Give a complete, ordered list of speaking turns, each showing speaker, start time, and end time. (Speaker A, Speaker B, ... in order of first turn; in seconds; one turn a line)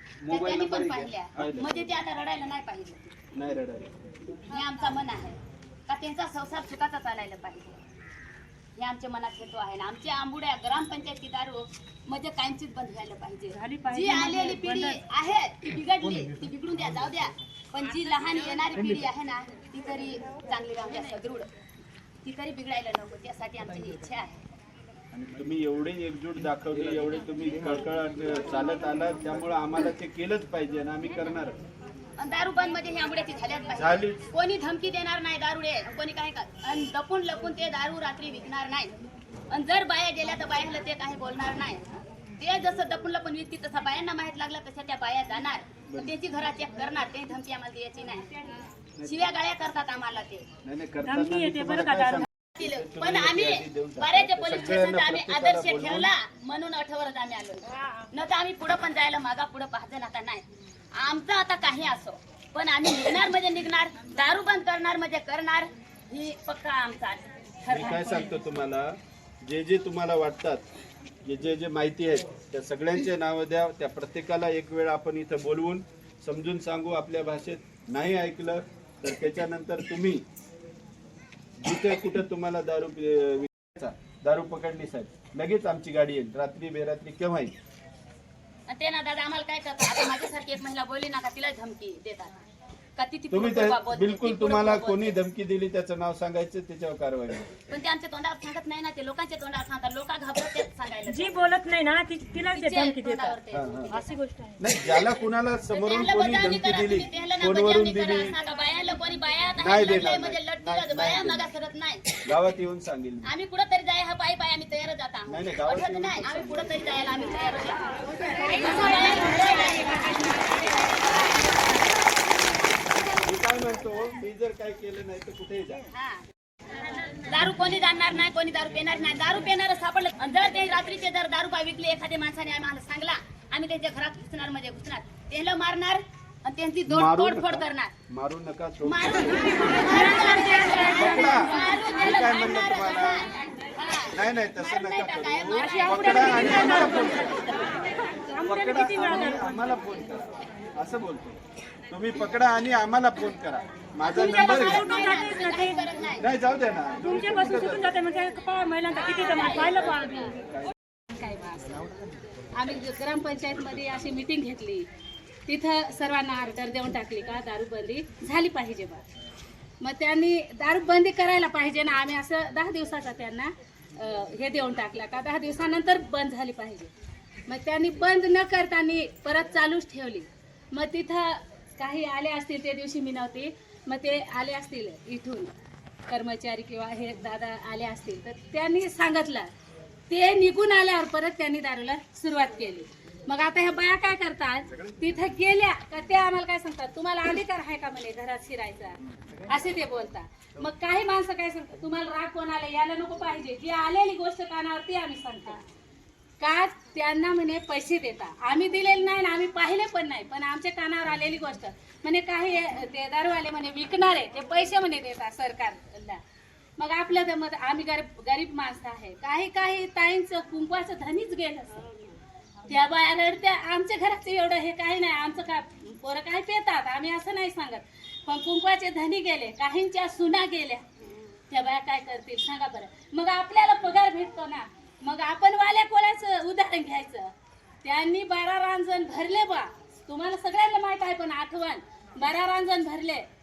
Speaker A: 0.2-1.8
Speaker B: 0.3-3.1
Speaker A: 3.3-4.0
Speaker B: 4.5-7.8
Speaker B: 8.8-21.5
Speaker C: 13.5-15.0
Speaker B: 22.2-24.4
Speaker A: 25.3-31.6
Speaker B: 32.2-38.9
Speaker A: 33.8-34.2
Speaker B: 39.5-41.9
Speaker B: 42.4-48.3
Speaker B: 49.0-50.5
Speaker A: 50.6-56.1
Speaker C: 51.0-52.3
Speaker B: 52.6-68.4
Speaker A: 67.7-70.6
Speaker A: 71.2-80.2
Speaker A: 81.6-87.5
Speaker B: 88.7-92.4
Speaker B: 93.0-95.2
Speaker A: 93.3-97.5
Speaker B: 97.7-101.5
Speaker C: 101.1-103.4
Speaker B: 102.5-104.0
Speaker A: 103.5-103.9
Speaker C: 103.9-104.7
Speaker A: 104.6-108.4
Speaker B: 105.7-112.0
Speaker A: 109.6-111.5
Speaker A: 112.2-113.3
Speaker B: 113.2-117.8
Speaker A: 115.3-116.8
Speaker B: 118.4-121.2
Speaker A: 123.2-125.8
Speaker B: 125.9-126.2
Speaker B: 127.2-137.9
Speaker A: 136.9-139.7
Speaker B: 138.8-147.5
Speaker C: 139.7-141.3
Speaker A: 140.9-143.2
Speaker A: 144.1-147.4
Speaker C: 145.6-149.8
Speaker A: 148.4-151.4
Speaker A: 151.9-155.0
Speaker B: 154.0-156.2
Speaker C: 154.1-155.9
Speaker A: 156.2-158.0
Speaker C: 157.0-160.2
Speaker B: 159.1-159.7
Speaker A: 159.6-160.7
Speaker D: 161.1-161.8
Speaker D: 162.5-164.8
Speaker D: 165.5-169.0
Speaker D: 169.8-176.9
Speaker D: 177.5-185.5
Speaker D: 186.1-189.5
Speaker D: 190.1-199.0
Speaker D: 199.5-205.6
Speaker D: 206.4-216.2
Speaker D: 216.8-221.8
Speaker D: 222.7-230.8
Speaker D: 231.5-237.3
Speaker D: 237.8-243.2